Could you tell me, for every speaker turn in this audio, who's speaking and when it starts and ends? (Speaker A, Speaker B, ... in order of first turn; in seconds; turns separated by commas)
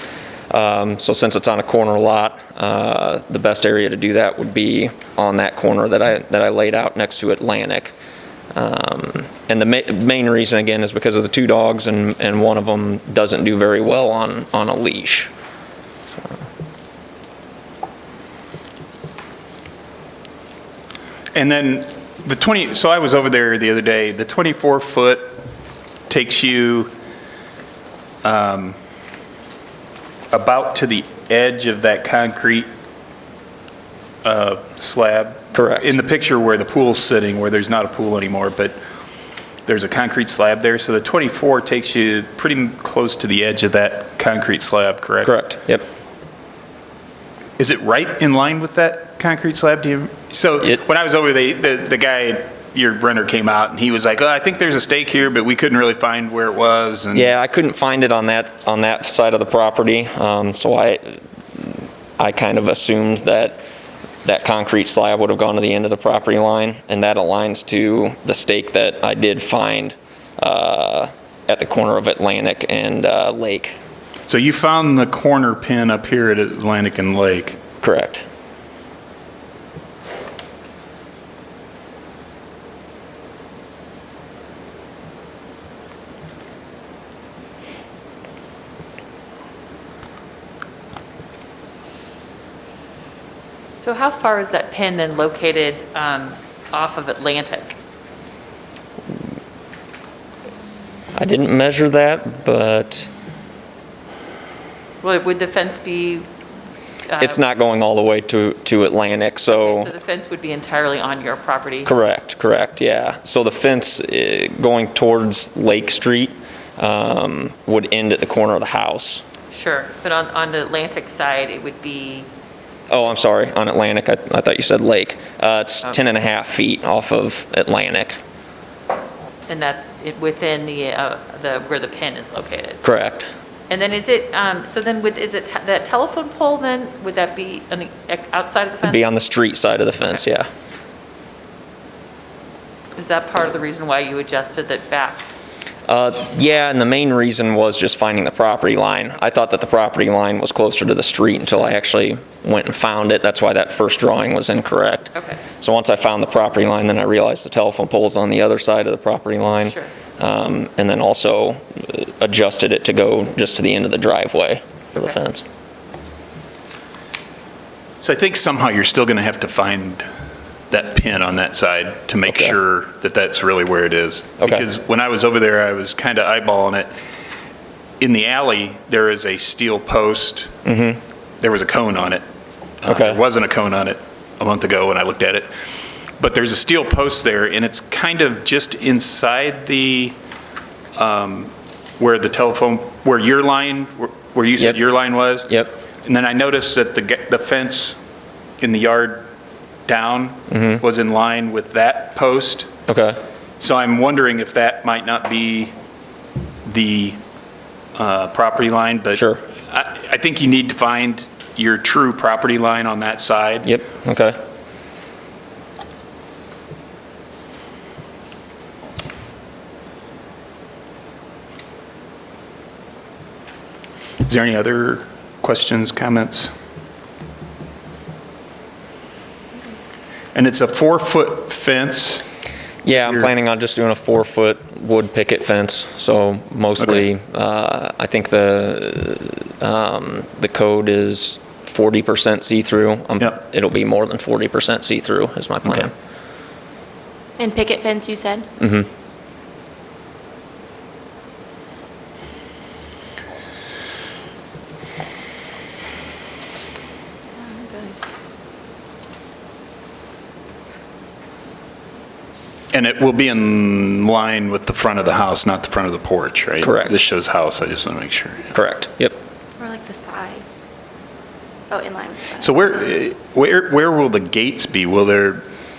Speaker A: 0.5-7.9, Speaker A: 8.5-15.3, Speaker B: 21.3-25.4, Speaker B: 26.1-26.9, Speaker B: 28.2-28.8, Speaker B: 30.3-32.7, Speaker B: 34.2-38.8, Speaker A: 35.5-35.9, Speaker B: 39.6-45.3, Speaker A: 45.2-45.8, Speaker B: 47.6-57.3, Speaker A: 57.1-63.6, Speaker A: 64.2-73.7, Speaker B: 74.3-77.6, Speaker A: 77.8-78.2, Speaker C: 93.8-97.8, Speaker A: 101.2-103.1, Speaker C: 105.0-106.2, Speaker C: 107.1-107.4, Speaker A: 107.2-109.9, Speaker C: 109.5-111.9, Speaker A: 111.8-119.2, Speaker C: 119.5-122.3, Speaker A: 122.9-128.1, Speaker C: 129.5-132.8, Speaker A: 132.8-133.3, Speaker C: 133.7-139.1, Speaker A: 138.8-140.5, Speaker C: 142.9-145.2, Speaker A: 145.9-165.4, Speaker C: 155.1-155.4, Speaker C: 159.6-159.9, Speaker B: 168.0-170.1, Speaker B: 170.7-176.9, Speaker A: 172.3-172.6, Speaker A: 174.4-174.7, Speaker B: 178.0-180.5, Speaker A: 180.6-181.0, Speaker B: 181.4-182.2, Speaker B: 182.8-185.5, Speaker A: 182.8-183.2, Speaker B: 186.2-190.2, Speaker B: 190.9-198.0, Speaker A: 195.5-195.7, Speaker B: 198.6-199.2, Speaker B: 199.9-202.7, Speaker A: 200.5-200.8, Speaker A: 202.9-203.2, Speaker B: 203.6-205.7, Speaker B: 206.7-207.2, Speaker B: 207.9-213.7, Speaker A: 209.1-209.4, Speaker A: 213.6-214.4, Speaker B: 224.2-226.5, Speaker B: 230.3-232.2, Speaker A: 232.8-245.9, Speaker B: 232.9-233.3, Speaker D: 247.4-248.4, Speaker A: 248.6-248.9, Speaker D: 257.4-258.0, Speaker B: 262.7-268.5, Speaker A: 266.6-266.9, Speaker A: 268.5-269.2, Speaker D: 269.6-270.4, Speaker D: 271.7-272.7, Speaker B: 272.4-275.4